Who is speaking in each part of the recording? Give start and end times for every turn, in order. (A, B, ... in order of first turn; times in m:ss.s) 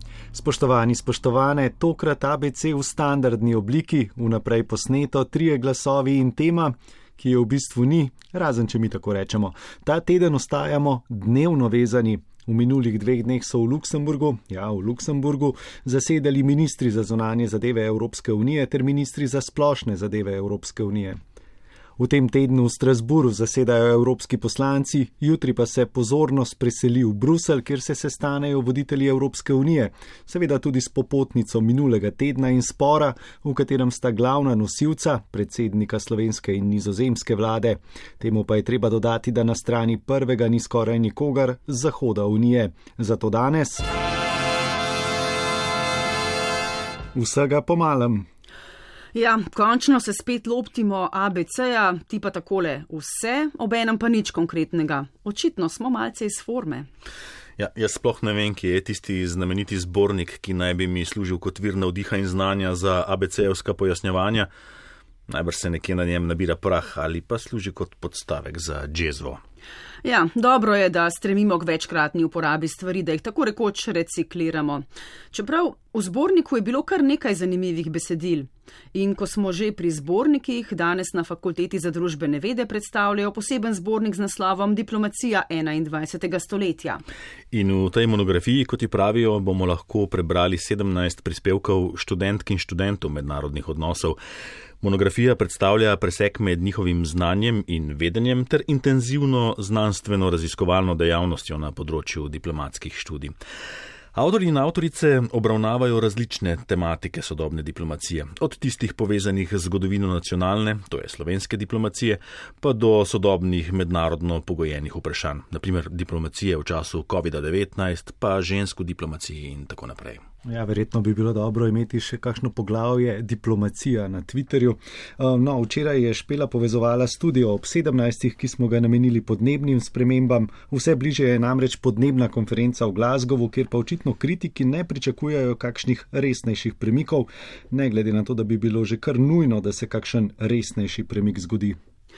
0:00.3-0:21.2 A
0:22.0-0:43.8 A
0:47.2-0:48.3 A
0:49.1-0:56.9 B
0:57.6-1:04.5 C
1:05.3-1:09.4 C
1:10.0-1:27.0 B
1:27.5-1:34.2 C
1:34.8-1:43.3 C
1:44.1-2:00.2 C
2:00.4-2:21.8 A